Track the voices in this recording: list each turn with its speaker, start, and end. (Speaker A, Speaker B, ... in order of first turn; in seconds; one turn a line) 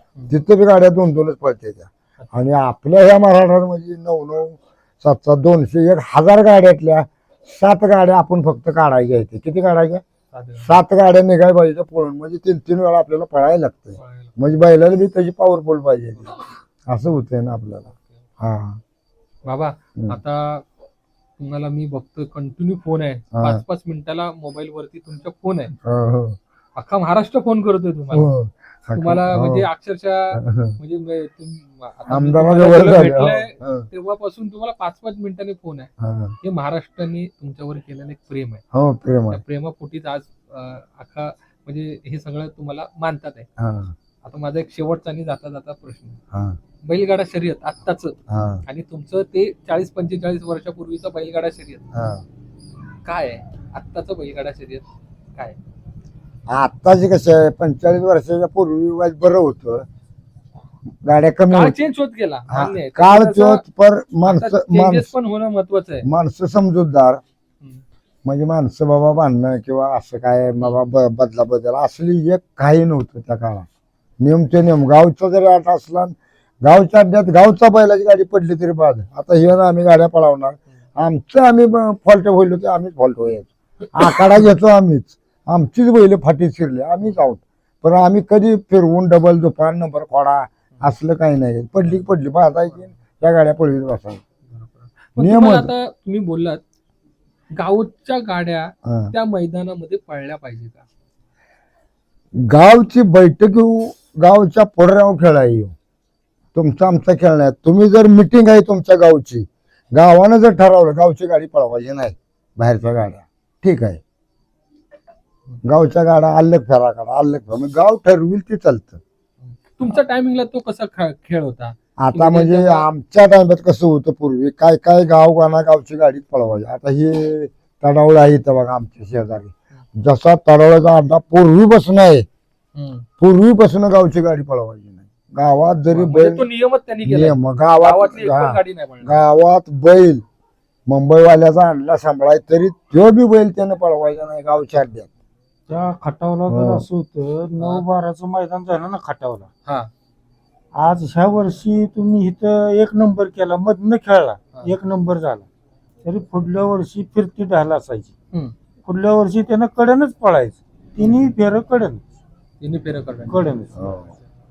Speaker A: 0.3-10.0
Speaker B: 10.3-10.8
Speaker A: 10.6-16.4
Speaker B: 14.0-14.4
Speaker A: 16.9-17.9
Speaker A: 18.4-18.8
Speaker B: 19.5-20.6
Speaker B: 21.4-25.7
Speaker A: 23.3-23.6
Speaker A: 25.8-26.4
Speaker B: 26.8-28.3
Speaker A: 28.1-29.7
Speaker B: 28.9-35.9
Speaker A: 30.3-30.8
Speaker A: 32.1-33.9
Speaker A: 36.0-36.4
Speaker B: 36.4-38.6
Speaker A: 38.7-39.4
Speaker B: 39.3-43.5
Speaker A: 43.6-43.9
Speaker B: 44.2-46.2
Speaker A: 46.3-46.6
Speaker B: 46.8-51.8
Speaker A: 48.3-48.6
Speaker A: 51.9-52.2
Speaker B: 53.0-54.8
Speaker A: 56.5-59.9
Speaker A: 61.0-61.8
Speaker B: 61.5-63.6
Speaker A: 62.5-65.1
Speaker B: 64.2-66.1
Speaker A: 66.0-67.2
Speaker A: 68.2-73.7
Speaker A: 74.2-94.2
Speaker B: 94.5-96.6
Speaker A: 95.2-95.7
Speaker B: 97.5-100.8
Speaker A: 98.8-99.1
Speaker A: 102.3-105.7
Speaker A: 106.5-114.0
Speaker A: 115.6-119.0
Speaker B: 119.4-122.9
Speaker A: 122.0-132.3
Speaker B: 132.8-133.1
Speaker A: 133.2-136.5
Speaker B: 135.9-139.2
Speaker A: 137.1-140.2
Speaker A: 140.9-145.1
Speaker C: 145.7-149.5
Speaker A: 146.5-146.8
Speaker B: 147.6-147.8
Speaker B: 149.7-149.9
Speaker C: 150.7-155.5
Speaker C: 156.0-158.1
Speaker C: 158.8-162.0
Speaker B: 161.0-161.3
Speaker B: 162.6-163.6
Speaker C: 163.3-163.8
Speaker A: 163.8-164.1